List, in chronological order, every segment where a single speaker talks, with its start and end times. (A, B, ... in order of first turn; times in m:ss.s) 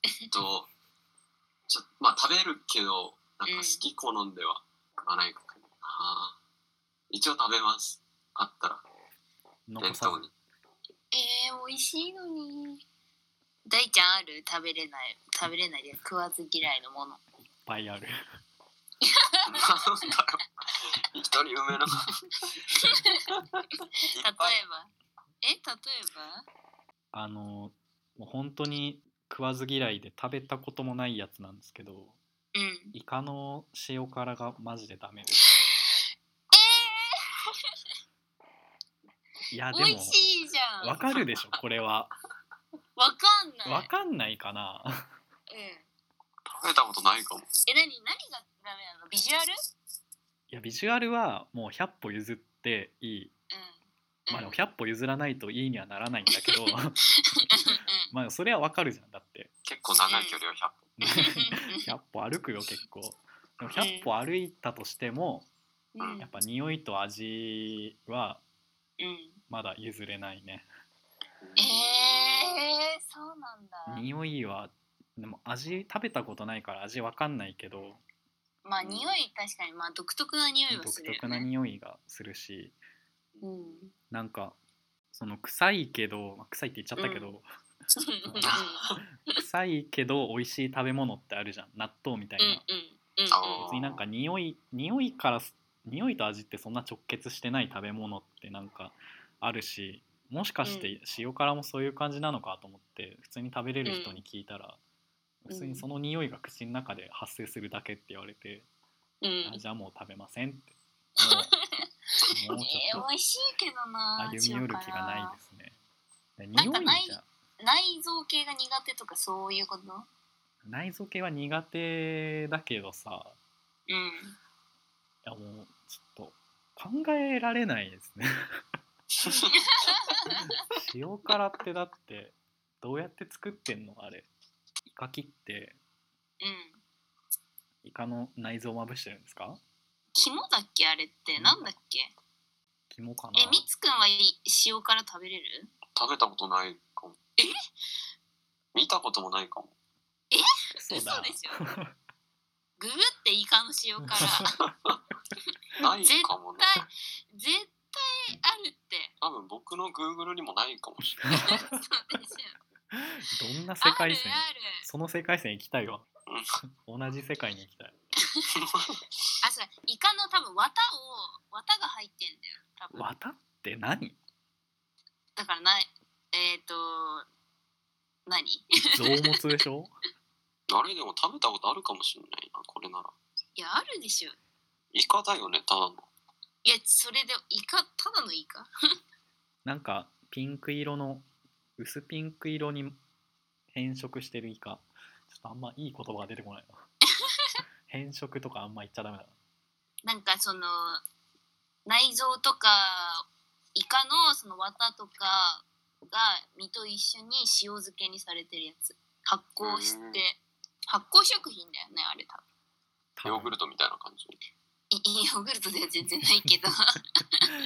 0:00.3-0:00.7 A
0:01.7-0:06.4 A
0:03.4-0:03.8 B
0:07.1-0:08.8 A
0:09.7-0:10.2 C
0:09.8-0:10.3 A
0:11.1-0:12.8 B
0:13.6-0:17.2 B
0:17.5-0:18.2 C
0:19.0-0:19.7 B
0:19.5-0:22.6 A
0:22.8-0:23.3 B
0:24.0-0:24.6 A
0:24.2-0:26.4 B
0:27.1-0:32.2 C
0:32.5-0:32.9 B
0:32.9-0:35.8 C
0:36.5-0:37.5 B
0:39.5-0:40.3 C
0:39.7-0:41.0 B
0:40.8-0:42.1 C
0:41.1-0:41.4 A
0:43.0-0:43.9 B
0:43.6-0:45.1 C
0:45.5-0:45.9 B
0:46.4-0:47.5 A
0:47.6-0:49.5 B
0:50.5-0:53.3 C
0:53.5-0:54.6 B
0:54.3-0:57.0 C
0:56.3-0:56.6 B
0:57.3-0:58.1 B
0:58.1-0:59.5 C
0:59.6-1:00.9 A
1:00.1-1:00.4 B
1:01.0-1:05.5 C
1:01.0-1:01.9 B
1:03.8-1:04.1 B
1:05.9-1:06.3 B
1:06.2-1:08.4 C
1:09.0-1:09.4 B
1:09.5-1:10.6 C
1:11.4-1:12.5 A
1:11.6-1:14.1 B
1:13.9-1:18.0 C
1:18.6-1:21.5 B
1:18.8-1:19.2 A
1:20.7-1:22.8 C
1:23.4-1:23.9 B
1:24.1-1:24.6 C
1:25.1-1:27.4 C
1:27.0-1:27.3 B
1:27.9-1:29.4 B
1:28.2-1:28.6 C
1:28.4-1:29.0 A
1:29.2-1:32.6 C
1:32.4-1:33.7 B
1:33.3-1:34.0 A
1:33.6-1:44.8 C
1:40.6-1:40.9 B
1:43.8-1:44.2 B
1:45.4-1:48.7 C
1:45.5-1:45.8 B
1:49.2-1:49.6 B
1:49.4-1:51.5 C
1:51.2-1:51.8 B
1:52.3-1:53.1 C
1:52.5-1:55.4 B
1:54.2-1:55.8 C
1:56.4-1:57.2 C
1:56.5-2:00.1 B
2:00.6-2:03.4 C
2:03.9-2:04.4 B
2:05.2-2:08.6 C
2:09.2-2:09.5 A
2:09.6-2:10.5 B
2:10.7-2:14.3 C
2:14.9-2:15.8 C
2:16.4-2:16.8 B
2:17.8-2:19.6 C
2:20.1-2:22.1 B
2:21.3-2:21.7 C
2:22.9-2:23.6 C
2:23.4-2:25.7 B
2:25.9-2:27.2 A
2:28.7-2:29.7 A
2:30.3-2:31.6 B
2:30.8-2:31.9 C
2:32.8-2:34.6 B
2:34.1-2:34.4 C
2:34.7-2:35.0 A
2:35.8-2:36.8 A
2:36.0-2:39.1 B
2:39.2-2:41.5 A
2:41.3-2:41.8 C
2:41.3-2:42.6 B
2:42.9-2:46.0 C
2:43.8-2:44.9 B
2:46.8-2:47.9 C
2:48.6-2:49.0 A
2:49.4-2:53.1 B
2:52.9-2:54.2 C
2:55.4-2:57.2 B
2:58.3-2:59.4 B
2:58.9-2:59.9 C
3:00.7-3:03.1 A
3:03.6-3:04.4 B
3:04.9-3:06.1 A
3:06.6-3:08.7 B
3:09.6-3:11.2 C
3:11.8-3:13.0 C
3:13.7-3:16.8 C
3:17.9-3:19.3 C
3:20.0-3:21.0 B
3:21.8-3:32.4 B
3:29.6-3:30.2 A
3:33.2-3:33.5 C
3:33.2-3:34.4 A
3:34.9-3:37.5 B